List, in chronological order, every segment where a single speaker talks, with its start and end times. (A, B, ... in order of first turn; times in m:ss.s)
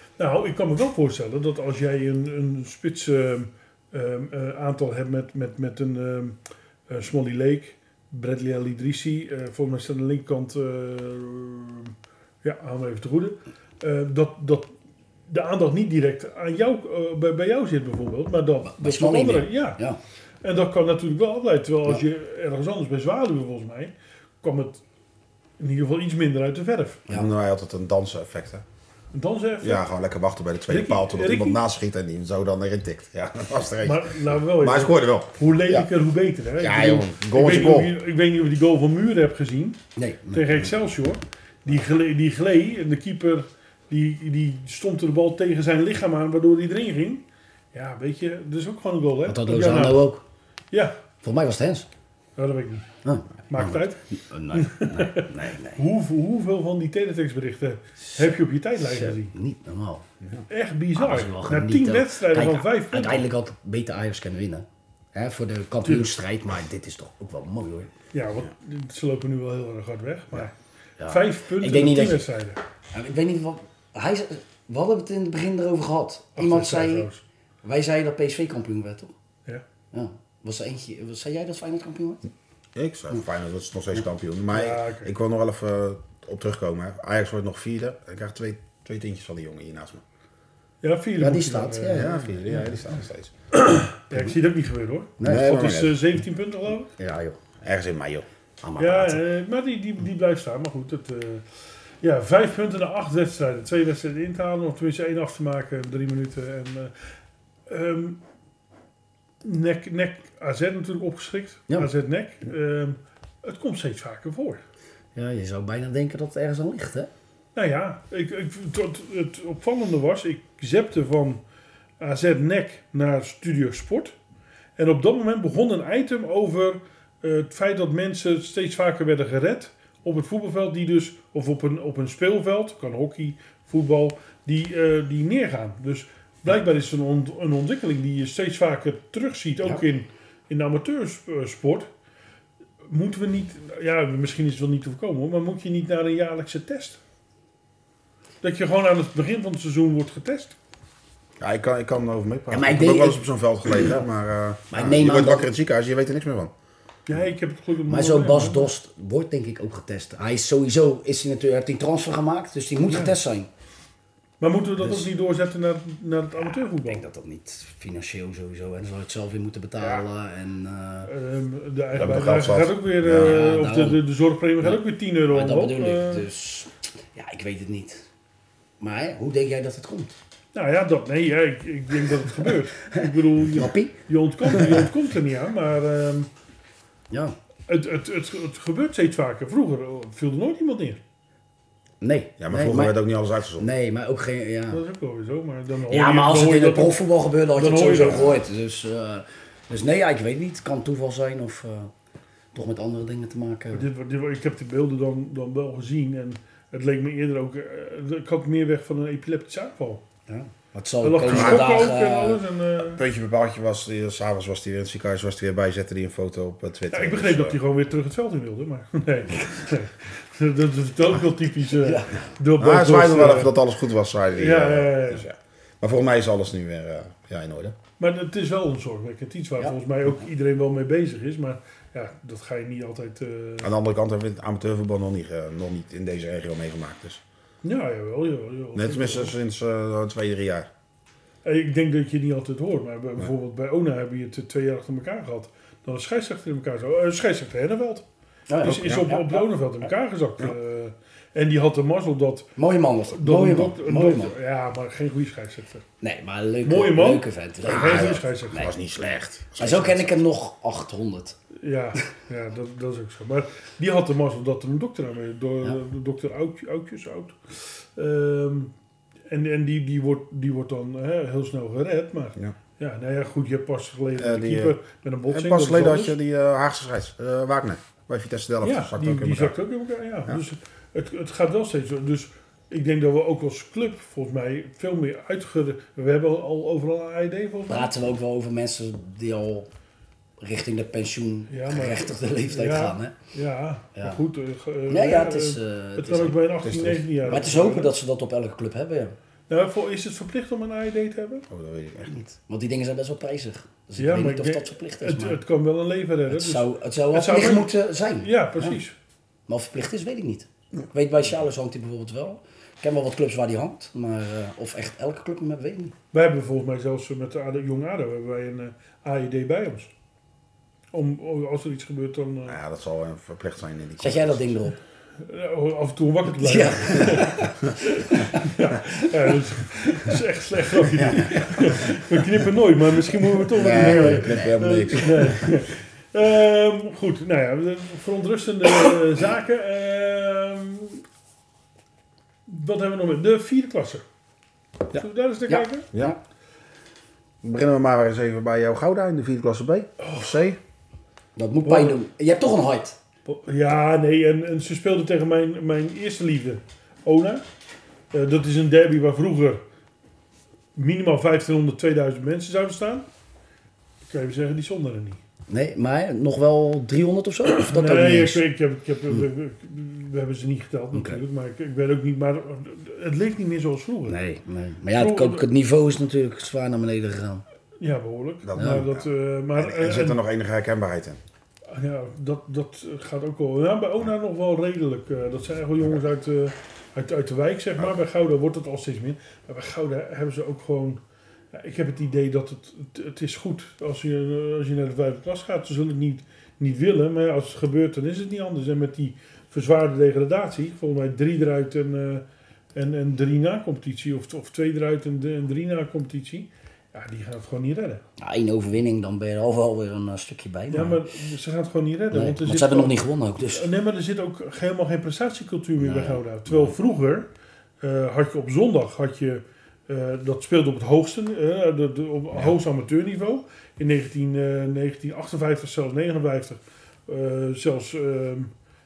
0:00.2-0:06.4 A
0:06.9-0:14.7 A
0:15.3-0:19.8 A
0:18.6-0:20.0 B
0:20.4-0:24.8 A
0:25.6-0:27.0 A
0:27.1-0:28.6 C
0:29.1-0:29.8 A
0:29.6-0:35.9 C
0:30.7-0:31.6 A
0:33.8-0:39.8 A
0:36.6-0:38.0 C
0:40.0-0:40.6 B
0:40.3-0:50.1 A
0:49.3-0:50.2 B
0:50.7-0:51.0 A
0:51.2-0:51.9 B
0:52.4-0:52.9 A
0:53.0-0:55.8 B
0:53.5-0:54.0 A
0:54.5-0:59.3 A
0:58.8-1:00.1 B
1:00.5-1:03.2 A
1:01.0-1:07.9 B
1:08.1-1:10.5 A
1:10.3-1:12.2 B
1:11.1-1:12.6 A
1:12.9-1:17.1 B
1:16.4-1:17.2 A
1:17.6-1:19.1 B
1:19.9-1:22.2 B
1:22.8-1:30.0 C
1:24.5-1:25.1 A
1:30.8-1:32.2 A
1:31.2-1:32.7 B
1:31.9-1:33.3 C
1:33.5-1:36.9 A
1:35.2-1:35.7 B
1:35.2-1:36.0 C
1:37.0-1:37.4 B
1:37.6-1:38.3 C
1:38.6-1:39.2 B
1:38.8-1:41.4 A
1:42.0-1:46.9 A
1:47.7-1:48.2 A
1:49.4-1:54.6 A
1:55.2-1:57.1 B
1:57.6-2:01.4 A
2:02.0-2:04.2 A
2:04.8-2:21.9 A
2:22.9-2:27.0 A
2:28.4-2:30.6 A
2:31.4-2:36.5 C
2:32.5-2:33.2 B
2:34.7-2:35.5 B
2:37.1-2:38.7 A
2:37.9-2:43.5 B
2:42.9-2:43.1 A
2:44.4-2:47.0 A
2:44.8-2:45.1 B
2:46.4-2:51.1 B
2:51.1-2:56.3 A
2:51.9-2:53.5 C
2:53.1-2:54.0 B
2:54.6-2:58.1 B
2:58.8-3:00.2 B
3:00.5-3:06.3 A
3:02.8-3:04.0 B
3:04.5-3:04.8 B
3:07.1-3:07.4 B
3:07.7-3:11.0 A
3:12.0-3:13.0 B
3:12.4-3:13.7 C
3:13.6-3:14.8 B
3:14.7-3:17.0 A
3:15.9-3:21.9 B
3:17.6-3:18.4 A
3:22.5-3:23.9 B
3:23.7-3:30.0 A
3:30.3-3:32.4 B
3:31.0-3:33.0 A
3:31.2-3:31.8 C
3:32.8-3:37.6 C
3:36.9-3:43.6 A
3:41.7-3:42.3 B
3:42.6-3:47.8 C
3:44.4-3:45.2 A
3:48.0-3:53.7 A
3:53.6-3:57.2 C
3:57.6-3:59.3 A
3:58.8-4:00.7 C
4:01.4-4:08.0 A
4:08.5-4:09.5 B
4:08.6-4:12.5 A
4:12.6-4:14.3 B
4:13.1-4:15.8 A
4:16.0-4:18.3 B
4:16.6-4:18.7 A
4:17.7-4:20.2 C
4:19.6-4:21.4 B
4:21.6-4:28.7 A
4:29.3-4:36.2 A
4:34.2-4:34.8 C
4:35.3-4:39.6 C
4:38.6-4:47.9 A
4:47.7-4:49.7 B
4:50.4-4:53.2 B
4:51.5-4:57.9 A
4:54.9-4:56.5 B
4:56.6-4:57.3 C
4:57.2-4:59.2 B
4:59.5-5:01.5 A
5:01.5-5:02.2 C
5:02.1-5:05.4 B
5:04.0-5:08.9 A
5:06.3-5:08.8 B
5:09.5-5:15.9 B
5:16.1-5:19.9 A
5:20.9-5:22.6 A
5:22.4-5:24.6 C
5:24.0-5:24.8 B
5:25.2-5:41.0 A
5:26.4-5:29.1 B
5:30.9-5:31.9 B
5:33.4-5:35.4 B
5:33.6-5:35.5 C
5:42.5-5:44.0 A
5:44.9-5:45.9 A
5:45.5-5:46.2 B
5:47.4-5:50.6 C
5:50.0-5:50.4 A
5:51.4-5:53.0 B
5:51.7-5:52.0 A
5:53.3-5:57.4 A
5:58.1-5:59.6 A
6:00.8-6:03.1 A
6:04.1-6:05.2 A
6:05.5-6:08.4 B
6:07.5-6:14.2 A
6:10.9-6:11.2 B
6:14.1-6:17.4 B
6:14.9-6:15.5 A
6:17.8-6:20.2 A
6:18.4-6:21.2 C
6:18.6-6:18.8 B
6:21.7-6:31.0 A
6:31.5-6:42.2 A
6:42.8-6:48.0 A
6:48.2-6:51.0 B
6:50.7-6:53.0 A
6:52.1-6:53.7 B
6:53.5-6:57.3 A
6:55.8-6:56.7 B
6:57.8-7:08.5 A